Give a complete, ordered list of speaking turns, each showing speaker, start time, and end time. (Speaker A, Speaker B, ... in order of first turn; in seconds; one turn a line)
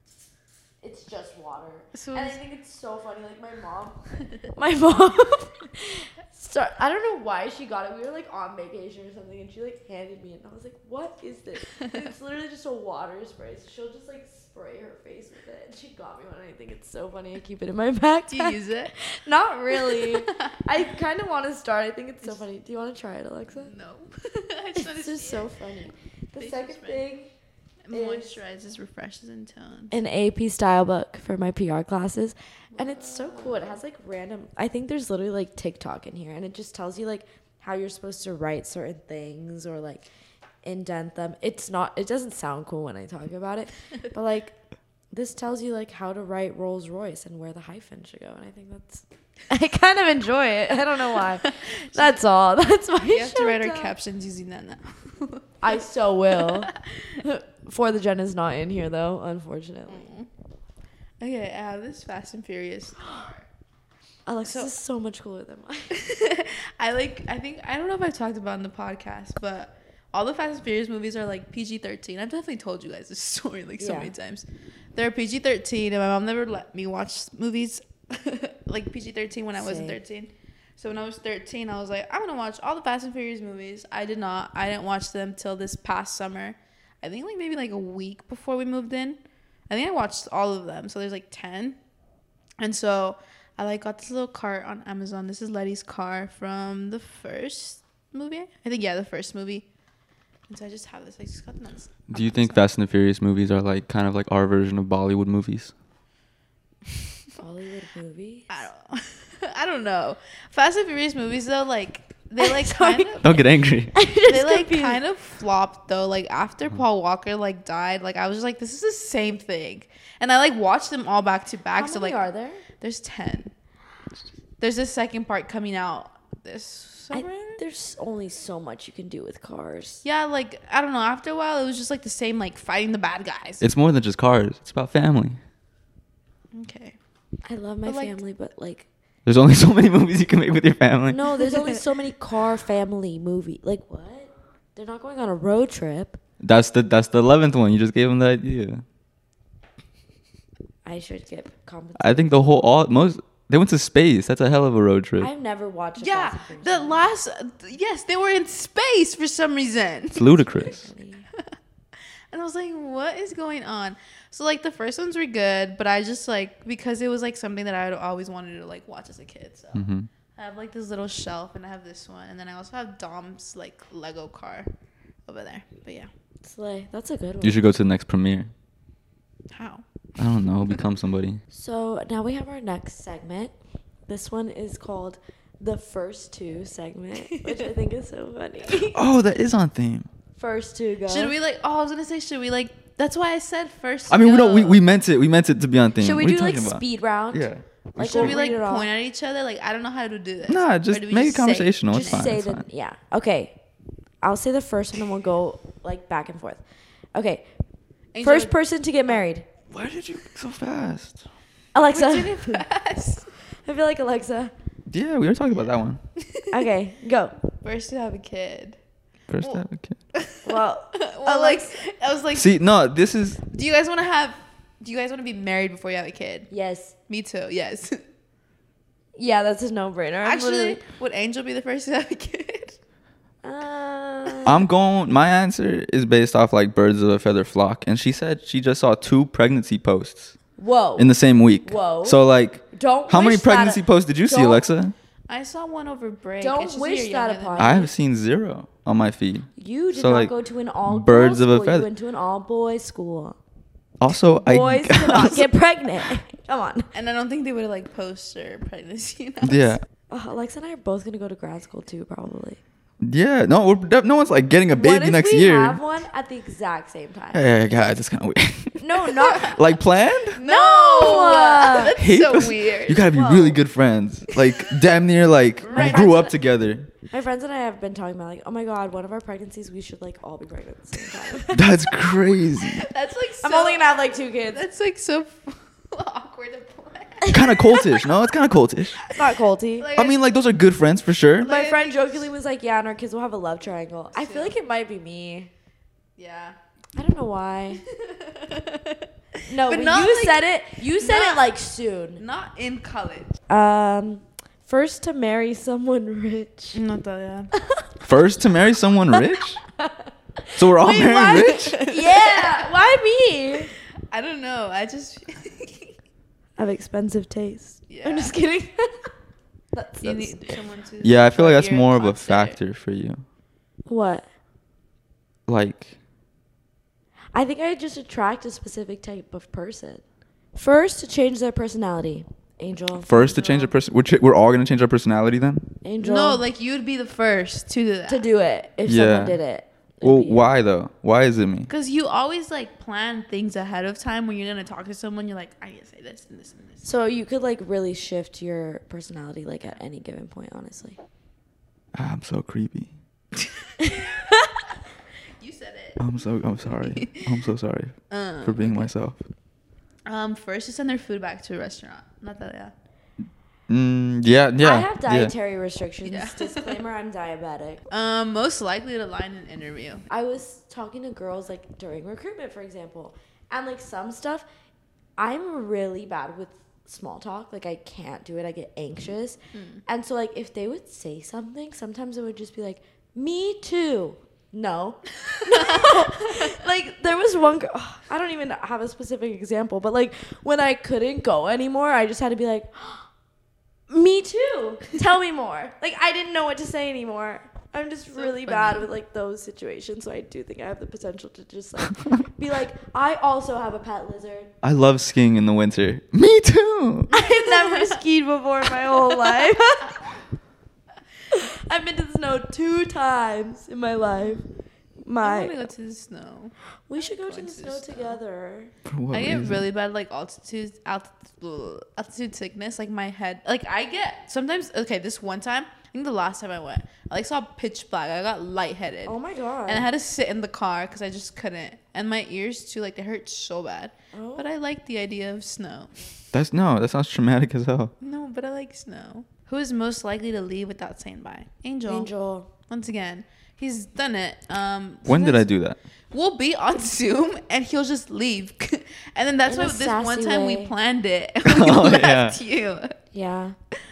Speaker A: 0.8-23.7
Speaker B: 1.9-2.4
Speaker B: 11.7-12.0
Speaker B: 18.3-19.0
Speaker B: 19.7-20.6
Speaker B: 23.6-25.5
Speaker A: 24.7-27.3
Speaker B: 26.4-27.0
Speaker B: 27.8-29.9
Speaker A: 27.9-28.3
Speaker A: 29.9-40.1
Speaker B: 32.7-33.7
Speaker A: 40.6-44.5
Speaker A: 45.1-53.9
Speaker B: 51.4-52.2
Speaker B: 53.0-55.4
Speaker A: 55.6-60.1
Speaker B: 56.4-57.2
Speaker B: 59.9-60.3
Speaker B: 61.2-63.5
Speaker A: 64.2-65.9
Speaker B: 64.4-64.7
Speaker B: 65.9-91.8
Speaker A: 73.8-74.1
Speaker A: 79.5-80.0
Speaker B: 92.6-99.7
Speaker B: 100.5-102.6
Speaker C: 102.1-105.7
Speaker A: 107.4-108.7
Speaker B: 108.5-113.4
Speaker A: 112.4-113.1
Speaker C: 113.2-113.9
Speaker A: 113.9-115.0
Speaker B: 114.2-122.2
Speaker A: 121.7-122.6
Speaker B: 122.8-123.5
Speaker B: 124.6-127.6
Speaker A: 127.1-130.0
Speaker B: 130.0-133.6
Speaker C: 133.6-135.4
Speaker B: 136.5-137.0
Speaker A: 137.4-138.9
Speaker B: 137.8-138.2
Speaker C: 139.2-141.4
Speaker A: 141.1-146.2
Speaker C: 146.4-148.8
Speaker A: 150.8-152.7
Speaker C: 152.0-155.3
Speaker A: 155.2-157.0
Speaker B: 156.0-160.7
Speaker C: 160.1-160.8
Speaker A: 160.4-161.3
Speaker B: 162.3-169.8
Speaker C: 169.7-170.1
Speaker B: 170.3-174.7
Speaker B: 175.3-176.1
Speaker A: 176.4-177.6
Speaker C: 177.4-178.5
Speaker B: 179.5-179.8
Speaker C: 180.2-181.4
Speaker A: 181.5-183.5
Speaker A: 184.1-189.0
Speaker C: 188.9-190.1
Speaker A: 190.4-191.3
Speaker B: 191.1-194.8
Speaker C: 194.1-198.3
Speaker A: 196.0-198.9
Speaker B: 198.0-202.3
Speaker C: 200.5-202.6
Speaker A: 201.9-203.6
Speaker A: 204.2-207.5
Speaker B: 208.1-208.6
Speaker A: 208.2-209.4
Speaker C: 209.7-211.2
Speaker A: 211.7-212.6
Speaker B: 211.9-213.3
Speaker A: 213.6-214.5
Speaker C: 214.9-216.0
Speaker B: 216.2-216.6
Speaker A: 216.5-217.3
Speaker B: 217.6-218.8
Speaker C: 219.3-220.0
Speaker B: 220.1-222.5
Speaker A: 220.4-221.8
Speaker C: 222.3-223.4
Speaker B: 223.5-226.5
Speaker A: 226.5-226.9
Speaker B: 227.1-228.0
Speaker A: 229.2-230.8
Speaker B: 230.2-232.8
Speaker A: 233.4-234.6
Speaker C: 234.4-240.3
Speaker A: 240.6-244.6
Speaker C: 241.0-244.9
Speaker B: 245.3-247.9
Speaker A: 246.4-247.9
Speaker C: 247.6-250.3
Speaker A: 249.6-253.4
Speaker C: 250.8-251.9
Speaker C: 254.0-255.5
Speaker A: 254.3-256.9
Speaker B: 256.9-259.8
Speaker C: 259.4-259.8
Speaker A: 260.1-262.6
Speaker C: 263.0-265.8
Speaker A: 264.7-267.5
Speaker C: 267.3-270.4
Speaker A: 268.8-269.6
Speaker B: 269.2-269.6
Speaker B: 270.3-273.1
Speaker A: 270.4-271.9
Speaker C: 272.0-276.9
Speaker A: 273.1-273.6
Speaker B: 275.6-276.1
Speaker A: 275.7-276.3
Speaker A: 277.1-281.6
Speaker C: 281.5-282.9
Speaker B: 282.6-288.0
Speaker A: 283.4-284.6
Speaker C: 287.3-289.1
Speaker A: 289.1-289.9
Speaker B: 289.8-290.2
Speaker C: 289.9-291.5
Speaker B: 291.4-292.3
Speaker A: 291.4-295.5
Speaker B: 294.1-294.5
Speaker B: 296.2-296.6
Speaker A: 296.9-297.8
Speaker B: 297.7-301.5
Speaker A: 299.5-302.2
Speaker B: 302.2-303.3
Speaker A: 303.5-306.8
Speaker B: 306.7-307.5
Speaker A: 307.5-307.9
Speaker C: 308.0-309.6
Speaker A: 309.1-313.7
Speaker C: 310.5-311.8
Speaker B: 310.8-312.6
Speaker B: 314.1-315.9
Speaker A: 316.6-319.1
Speaker B: 317.9-318.3
Speaker A: 319.7-320.6
Speaker B: 320.0-322.6
Speaker C: 321.0-323.2
Speaker A: 323.9-324.3
Speaker C: 325.5-325.9
Speaker A: 327.3-330.0
Speaker A: 330.5-333.4
Speaker C: 333.0-335.7
Speaker B: 333.1-333.7
Speaker A: 335.8-336.4
Speaker B: 336.0-338.2
Speaker A: 338.1-340.4
Speaker C: 338.8-339.4
Speaker C: 340.0-341.7
Speaker B: 341.7-346.9
Speaker A: 346.8-351.0
Speaker C: 351.9-352.9
Speaker B: 353.4-354.1
Speaker A: 353.8-354.5
Speaker B: 355.4-356.0
Speaker C: 356.0-359.2
Speaker B: 356.8-357.3
Speaker B: 358.1-358.9
Speaker B: 360.1-362.7
Speaker C: 363.7-365.3
Speaker A: 364.6-367.8
Speaker B: 366.0-366.8
Speaker B: 367.9-370.0
Speaker A: 370.1-374.4
Speaker A: 375.2-393.1
Speaker B: 379.5-379.8
Speaker B: 385.3-386.6
Speaker A: 393.9-404.5
Speaker B: 398.1-398.9
Speaker C: 404.6-407.1
Speaker A: 407.1-410.1
Speaker B: 407.2-407.7
Speaker A: 411.3-414.4
Speaker A: 415.0-415.7
Speaker B: 415.2-418.2
Speaker A: 416.9-418.7
Speaker C: 418.9-419.6
Speaker B: 419.1-429.1
Speaker A: 429.1-429.9
Speaker B: 429.7-435.9
Speaker A: 434.1-434.4
Speaker C: 436.3-437.9
Speaker B: 438.0-442.1
Speaker A: 441.9-442.5
Speaker B: 442.7-445.5
Speaker C: 445.1-445.8
Speaker B: 446.1-453.0
Speaker A: 449.5-450.7
Speaker C: 451.4-452.4
Speaker A: 453.1-453.6